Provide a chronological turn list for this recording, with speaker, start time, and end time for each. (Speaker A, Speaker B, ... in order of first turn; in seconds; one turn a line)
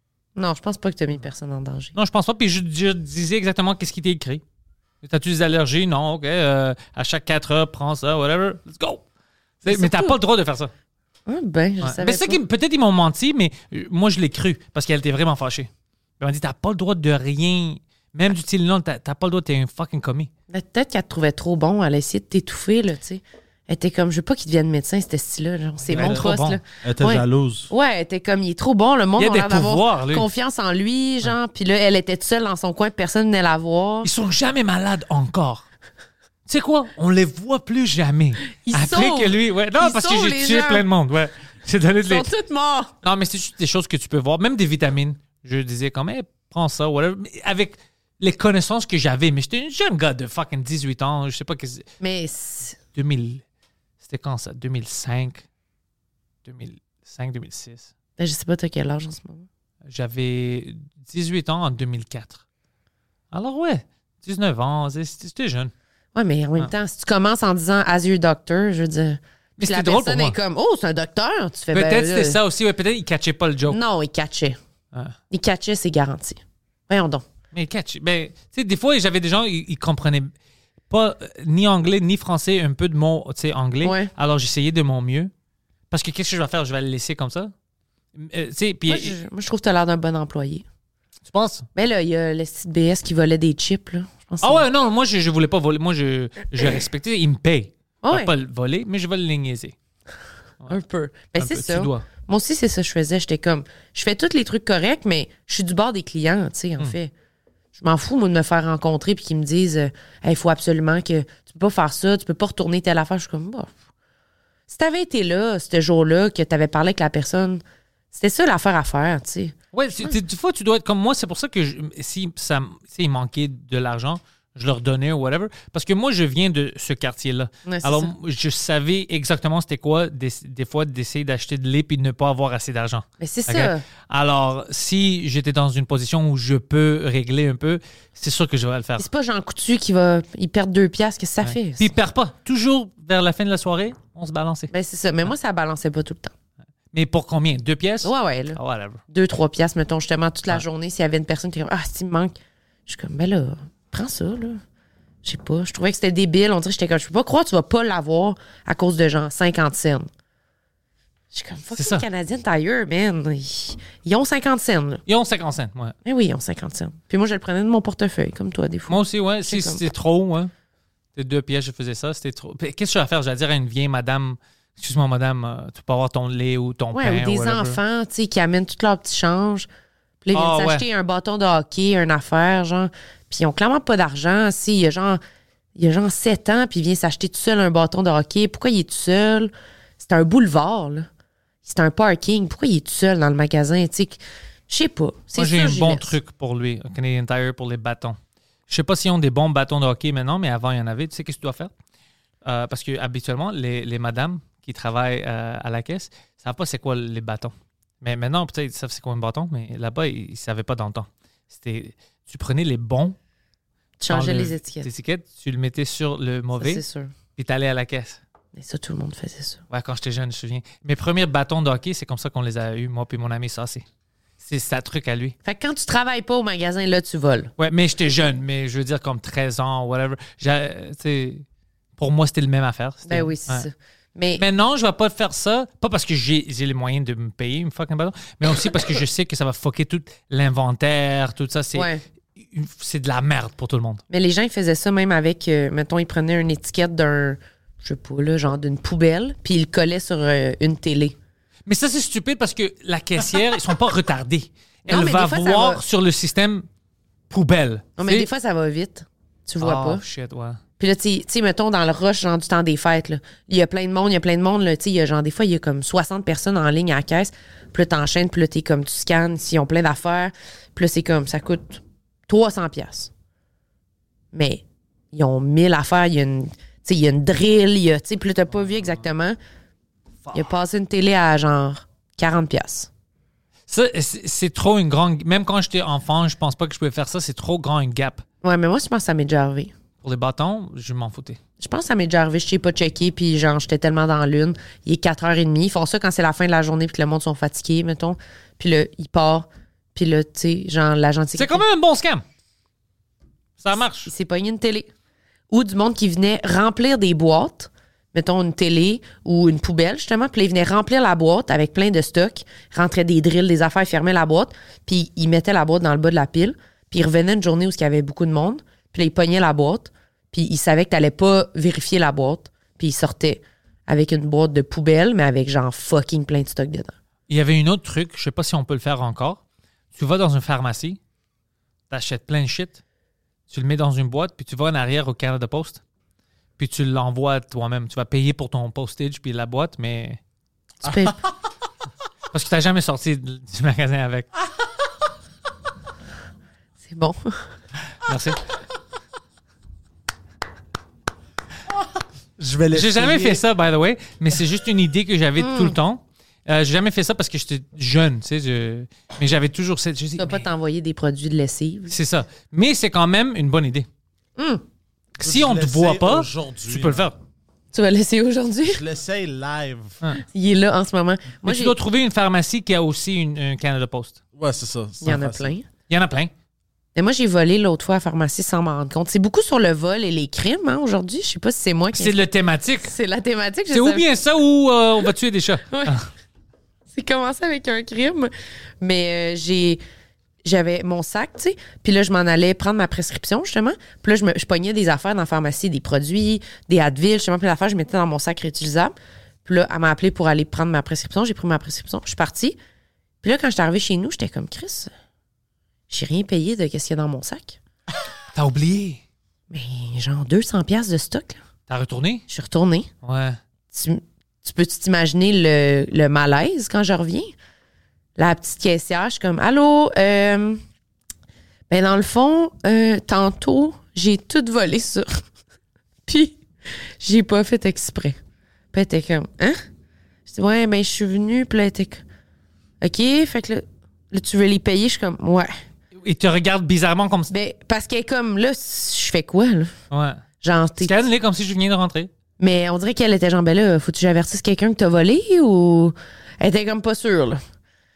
Speaker A: 0.3-1.9
Speaker B: 1.9-4.4
Speaker B: 5.0-9.0
Speaker B: 9.6-10.7
Speaker A: 9.7-10.2
Speaker A: 11.3-12.4
Speaker B: 11.8-15.7
Speaker B: 16.2-20.3
Speaker A: 20.5-34.1
Speaker B: 25.8-26.6
Speaker C: 26.8-27.7
Speaker B: 29.2-30.3
Speaker B: 34.0-35.6
Speaker B: 36.5-42.3
Speaker A: 38.6-40.9
Speaker A: 42.1-42.9
Speaker B: 43.0-51.8
Speaker A: 52.0-52.8
Speaker B: 52.9-53.4
Speaker B: 54.0-55.4
Speaker B: 56.4-57.9
Speaker A: 58.2-59.5
Speaker B: 59.9-62.4
Speaker B: 63.3-65.7
Speaker A: 66.1-72.4
Speaker B: 69.6-70.4
Speaker B: 71.7-73.8
Speaker A: 73.7-74.6
Speaker A: 75.3-77.2
Speaker B: 77.5-80.3
Speaker B: 80.9-85.3
Speaker A: 83.8-84.1
Speaker B: 85.9-87.5
Speaker B: 88.1-89.2
Speaker A: 88.9-90.6
Speaker B: 91.3-91.7
Speaker A: 91.7-94.6
Speaker B: 94.4-99.7
Speaker A: 98.0-98.3
Speaker A: 100.7-107.1
Speaker B: 101.3-102.0
Speaker A: 107.8-113.7
Speaker A: 114.7-117.6
Speaker A: 118.1-120.2
Speaker B: 119.7-139.1
Speaker A: 127.7-128.1
Speaker A: 133.2-133.8
Speaker A: 139.0-141.9
Speaker B: 141.4-144.7
Speaker A: 144.7-146.3
Speaker B: 146.9-149.0
Speaker A: 148.0-148.6
Speaker A: 149.1-152.3
Speaker A: 152.9-154.6
Speaker A: 155.2-160.1
Speaker A: 161.3-165.0
Speaker B: 161.7-162.0
Speaker B: 165.1-165.9
Speaker A: 166.1-169.8
Speaker B: 168.9-170.5
Speaker B: 171.1-177.8
Speaker A: 176.9-179.7
Speaker A: 180.2-185.2
Speaker B: 180.3-180.8
Speaker A: 185.8-191.1
Speaker A: 191.6-196.2
Speaker B: 195.3-198.2
Speaker B: 198.7-201.7
Speaker B: 202.4-213.2
Speaker A: 214.0-214.9
Speaker B: 214.1-216.8
Speaker A: 216.6-217.1
Speaker B: 217.3-218.2
Speaker A: 218.5-219.6
Speaker B: 219.7-223.8
Speaker B: 224.4-225.3
Speaker A: 225.4-227.5
Speaker B: 227.6-231.4
Speaker B: 232.0-233.7
Speaker A: 233.1-234.4
Speaker B: 234.4-244.0
Speaker A: 241.7-242.0
Speaker A: 244.1-251.2
Speaker B: 251.7-256.6
Speaker A: 254.9-255.8
Speaker B: 257.3-258.3
Speaker A: 258.0-260.0
Speaker B: 259.6-260.6
Speaker A: 260.8-273.1
Speaker A: 274.3-279.4
Speaker B: 278.6-279.0
Speaker A: 280.3-282.9
Speaker B: 283.7-288.2
Speaker A: 288.4-289.7
Speaker B: 290.0-291.4
Speaker A: 291.6-301.6
Speaker B: 301.3-302.2
Speaker B: 303.6-304.1
Speaker A: 304.1-304.9
Speaker A: 305.5-326.9
Speaker B: 327.3-329.4
Speaker B: 329.9-331.0
Speaker B: 331.9-332.8
Speaker B: 333.5-335.8
Speaker B: 336.6-340.2
Speaker C: 340.8-341.1
Speaker A: 340.8-341.2
Speaker B: 342.3-344.3
Speaker A: 346.8-347.4
Speaker B: 348.0-348.4
Speaker C: 352.4-353.4
Speaker B: 352.7-360.5
Speaker A: 355.4-355.7
Speaker A: 360.2-362.0
Speaker B: 361.9-363.9
Speaker A: 364.4-364.6
Speaker B: 365.1-367.2
Speaker C: 365.2-367.1
Speaker A: 367.7-368.8
Speaker C: 368.6-370.0
Speaker A: 370.2-371.7
Speaker B: 371.4-374.2
Speaker C: 374.3-375.6
Speaker A: 375.0-375.6
Speaker B: 375.9-376.3
Speaker A: 376.9-382.2
Speaker B: 381.9-382.9
Speaker A: 382.8-384.1
Speaker B: 383.7-386.1
Speaker A: 386.9-389.8
Speaker A: 390.4-398.9
Speaker A: 399.4-402.6
Speaker A: 403.2-404.9
Speaker A: 405.9-407.6
Speaker B: 408.3-409.0
Speaker A: 409.5-411.4
Speaker B: 411.7-412.2
Speaker A: 412.3-412.9
Speaker B: 413.0-413.4
Speaker A: 413.7-417.3
Speaker A: 418.2-420.6
Speaker A: 421.7-425.1
Speaker A: 426.1-426.4
Speaker A: 427.0-428.2
Speaker A: 428.7-429.6
Speaker A: 430.3-432.0
Speaker A: 432.8-435.5
Speaker B: 436.0-437.3
Speaker A: 437.3-439.7
Speaker B: 439.9-440.2
Speaker A: 440.4-441.1
Speaker B: 440.8-442.1
Speaker A: 442.4-447.4